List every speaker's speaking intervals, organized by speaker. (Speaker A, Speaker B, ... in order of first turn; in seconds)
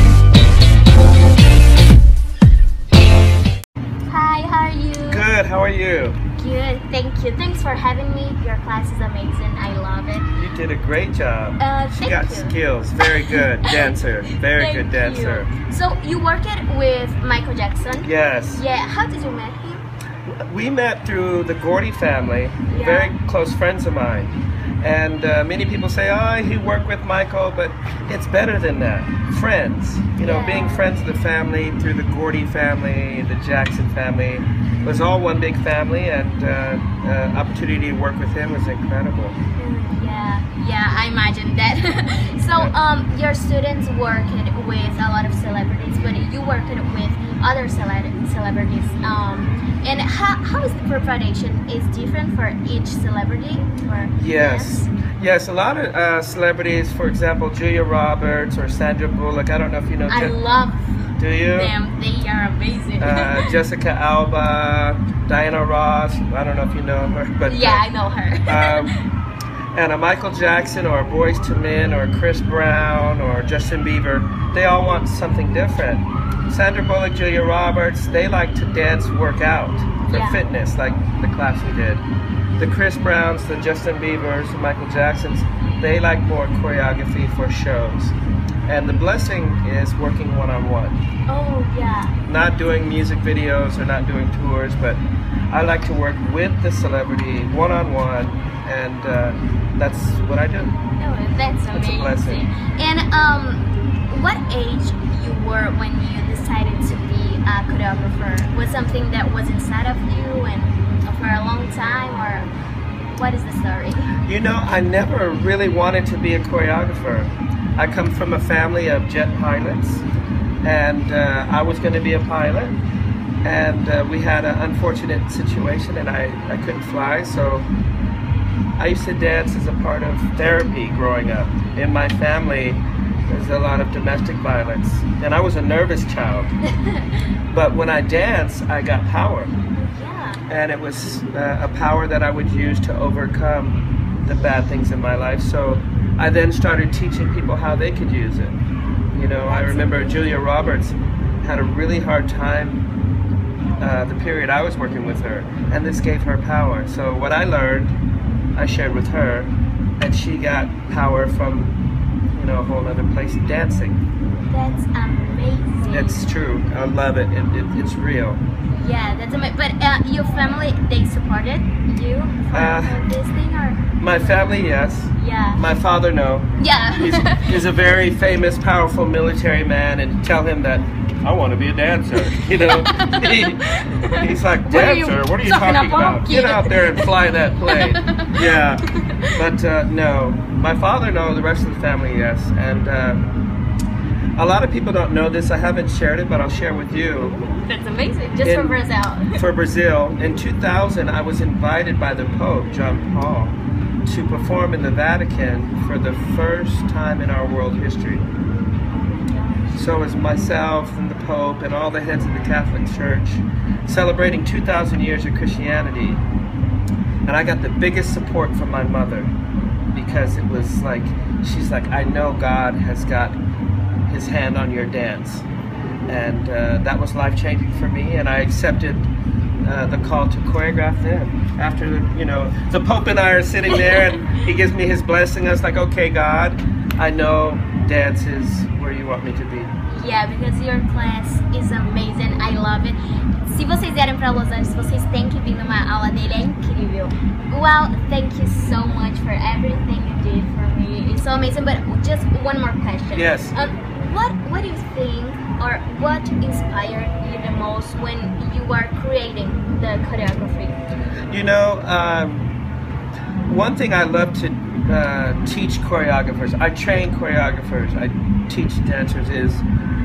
Speaker A: 4.1-5.2, 6.4-10.3, 11.6-12.6, 14.4-19.8, 22.7-23.1, 30.2-30.9, 39.6-54.9, 60.1-61.0, 61.5-63.5, 67.5-69.0, 80.1-80.4, 91.3-92.1, 101.0-112.5, 113.1-114.1, 136.8-137.1, 139.8-140.4, 149.3-150.4, 164.5-166.2, 168.7-173.8, 175.2-175.6, 176.6-177.6, 182.9-187.1, 187.6-189.3, 197.6-199.4, 208.9-209.8, 239.8-260.8
Speaker B: 5.1-6.2, 10.3-15.5, 18.0-18.6, 20.2-39.4, 54.2-60.4, 61.2-61.7, 63.0-67.8, 68.5-68.9, 69.7-82.0, 82.6-88.1, 88.7-91.0, 92.2-95.0, 95.5-100.7, 101.7-102.4, 114.2-120.0, 120.6-122.8, 123.4-127.7, 128.8-136.5, 137.5-139.5, 140.5-148.6, 149.1-152.8, 153.8-157.9, 158.6-161.7, 162.3-164.0, 165.9-168.4, 172.5-173.0, 174.0-188.8, 189.3-193.2, 194.3-197.4, 198.4-198.8, 199.3-208.2, 209.7-216.2, 217.2-219.3, 219.9-223.4, 224.1-225.4, 226.1-229.1, 229.6-239.7, 253.1-253.5, 261.3-262.5, 263.4-269.6